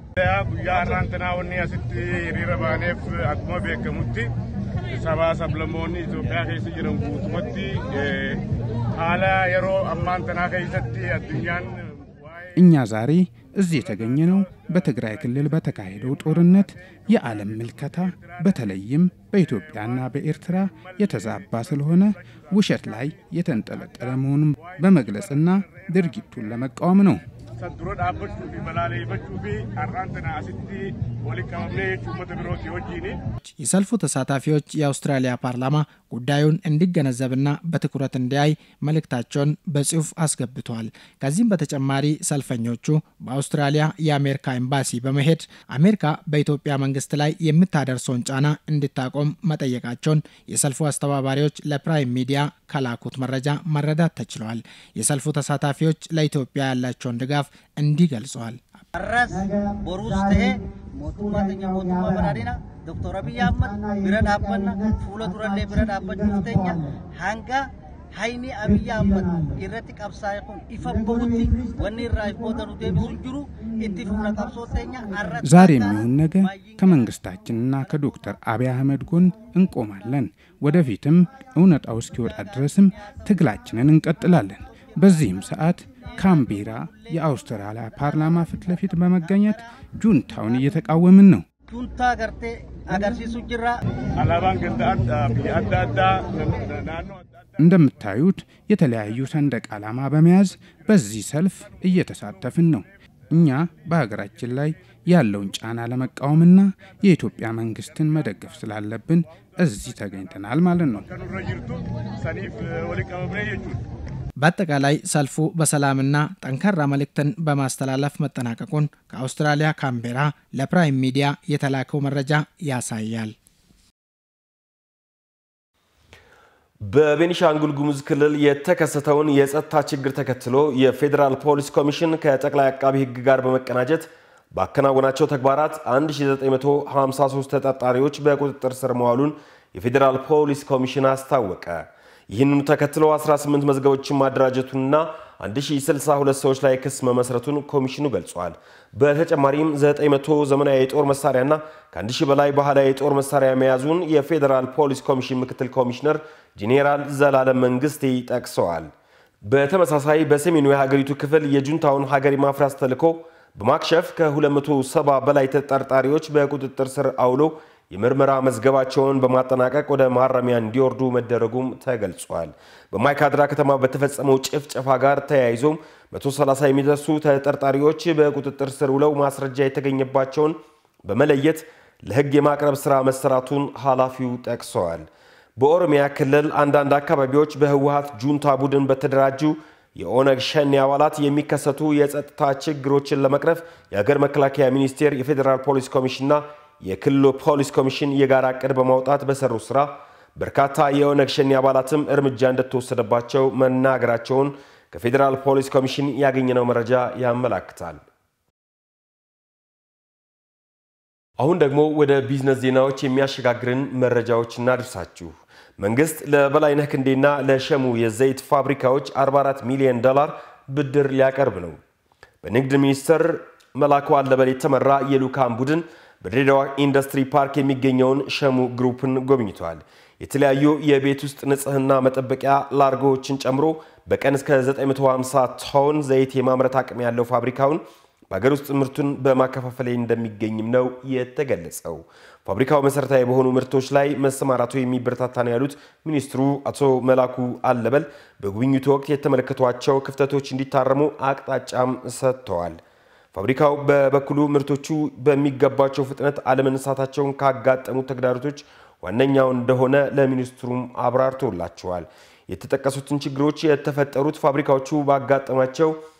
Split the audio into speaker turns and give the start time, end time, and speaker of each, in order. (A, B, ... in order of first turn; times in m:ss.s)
0:00.2-0:04.3 A
0:04.9-0:11.9 A
0:12.5-0:27.2 B
0:27.6-0:33.2 A
0:33.8-0:35.5 C
0:36.3-0:37.2 C
0:44.8-0:45.3 C
0:49.2-0:49.9 C
0:50.7-0:58.5 C
0:58.9-1:15.9 D
1:15.4-1:31.4 B
1:31.7-1:33.8 D
1:34.2-1:37.1 A
1:37.6-1:51.1 B
1:51.3-1:53.8 A
1:54.7-1:58.9 C
2:00.7-2:02.4 C
2:06.8-2:38.9 E
2:39.4-3:28.0 E
3:31.4-3:41.8 E
3:42.4-4:12.8 E
4:13.3-4:26.0 E